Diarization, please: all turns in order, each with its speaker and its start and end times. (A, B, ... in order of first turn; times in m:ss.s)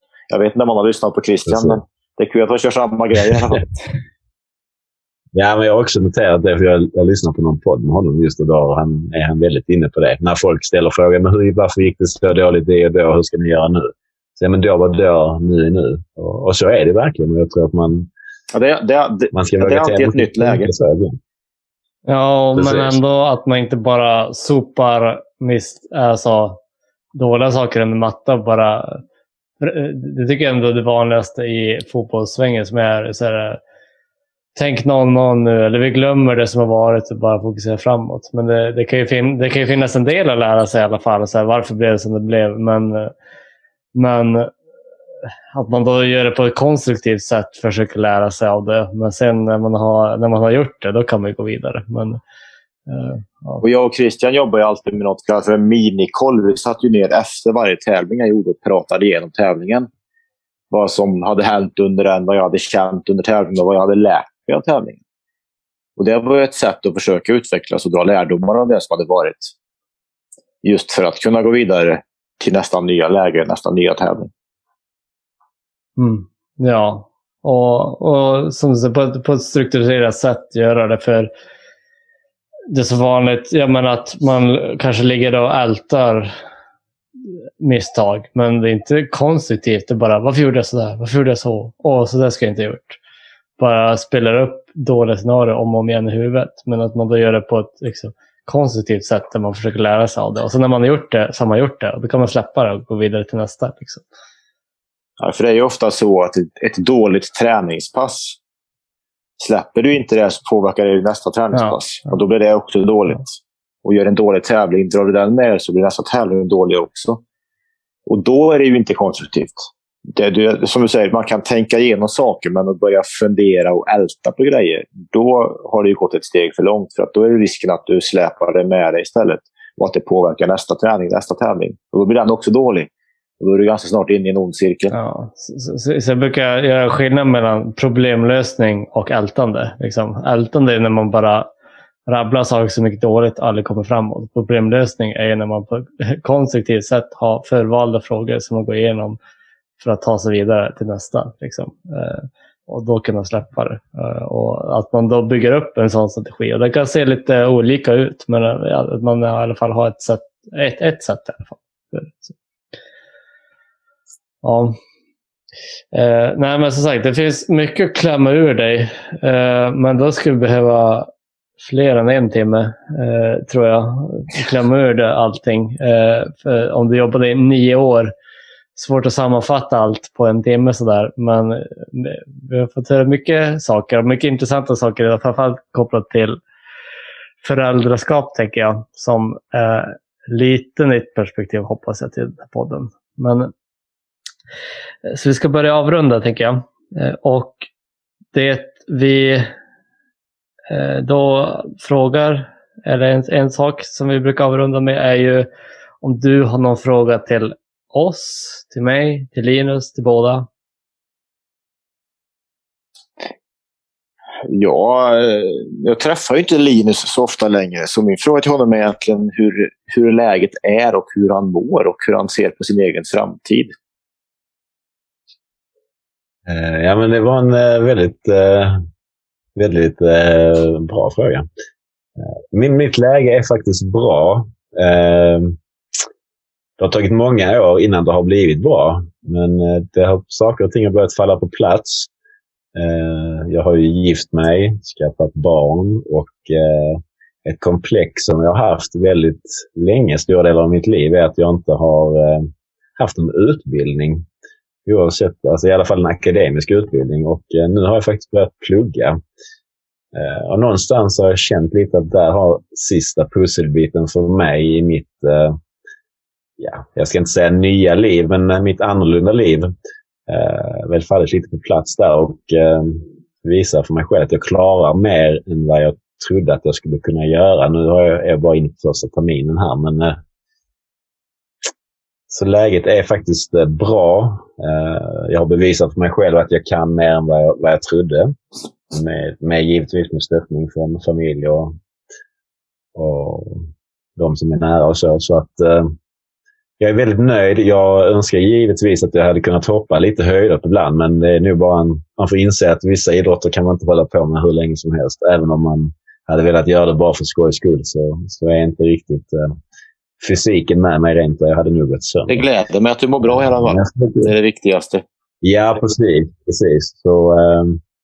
0:00.3-0:03.8 A
0:01.5-0:01.8 B
0:05.3-0:18.1 B
0:18.5-0:20.7 A
0:19.3-0:21.2 B
0:22.1-0:26.6 C
0:22.6-0:23.0 B
0:27.1-0:29.0 C
0:29.6-0:33.6 C
0:34.6-0:43.1 C
0:43.9-0:44.5 C
0:45.5-0:52.2 C
0:52.9-0:53.6 C
0:53.6-0:59.9 A
1:00.7-1:05.0 A
1:06.0-1:09.5 A
1:10.6-1:14.3 A
1:16.0-1:21.3 C
1:22.7-1:26.3 C
1:27.6-1:33.0 C
1:33.6-1:44.0 C
1:45.2-1:48.4 A
1:49.4-1:57.2 A
1:58.1-2:12.9 A
2:13.4-2:14.9 A
2:14.9-2:21.5 C
2:22.1-2:29.2 C
2:29.8-2:42.3 C
2:44.4-2:44.8 C
2:45.9-2:51.1 C
2:51.6-2:58.1 C
2:58.8-3:06.4 C
3:07.4-3:13.5 C
3:15.1-3:17.7 C
3:18.3-3:19.5 C
3:20.7-3:25.5 C
3:26.0-3:30.5 C
3:34.4-3:43.7 A
3:46.5-3:48.8 B
3:49.6-3:51.5 B
3:52.2-3:55.6 B
3:56.8-4:02.1 B
4:02.8-4:14.3 B
4:14.9-4:19.2 B
4:20.1-4:25.6 B
4:26.6-4:29.7 B
4:30.3-4:40.2 B
4:42.3-4:48.4 B
4:48.9-4:51.8 B
4:53.0-4:56.0 B
4:56.8-5:09.6 B
5:10.2-5:12.4 B
5:12.3-5:15.0 A
5:13.3-5:14.3 B
5:15.4-5:17.8 B